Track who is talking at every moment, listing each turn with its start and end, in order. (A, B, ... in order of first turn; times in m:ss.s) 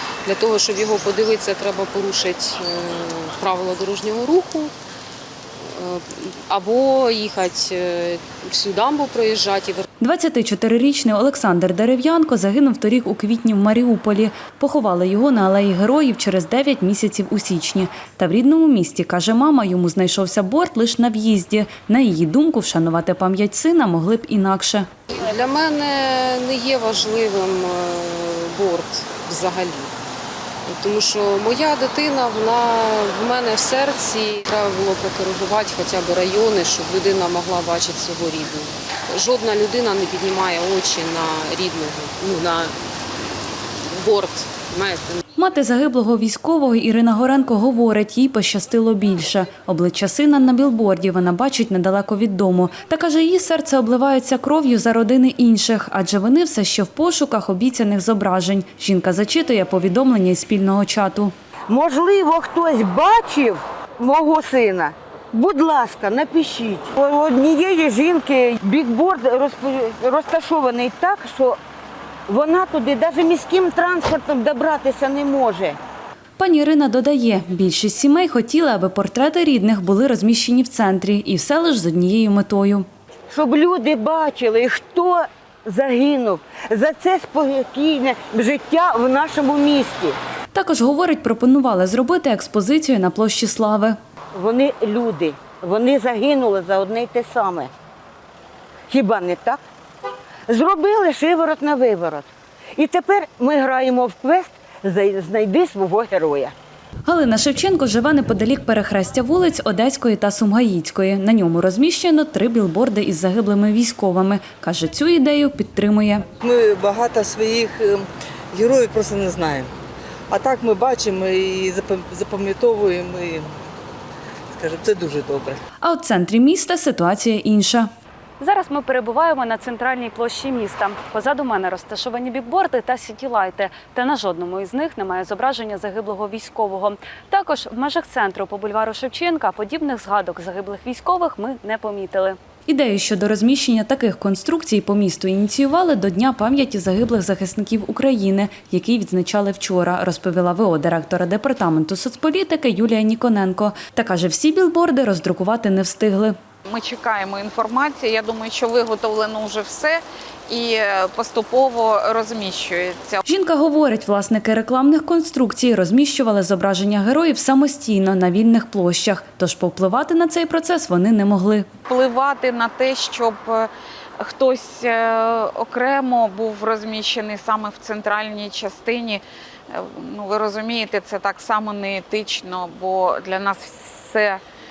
0:00.2-0:04.7 A
0:05.6-0:09.8 A
0:10.0-0:24.9 B
0:25.1-0:29.9 A
0:30.6-0:42.8 A
0:43.8-0:45.2 A
0:45.4-1:01.3 B
1:01.7-1:11.6 C
1:12.3-1:15.8 C
1:16.4-1:22.9 B
1:23.3-1:30.2 C
1:30.5-1:34.0 B
1:34.3-1:37.7 C
1:38.9-1:39.6 C
1:40.5-1:46.5 C
1:47.0-1:56.2 B
1:56.4-1:59.7 D
2:00.3-2:03.5 D
2:04.5-2:05.6 D
2:05.8-2:07.9 B
2:08.4-2:36.4 B
2:36.7-2:43.2 E
2:43.2-2:51.7 B
2:51.9-3:04.4 E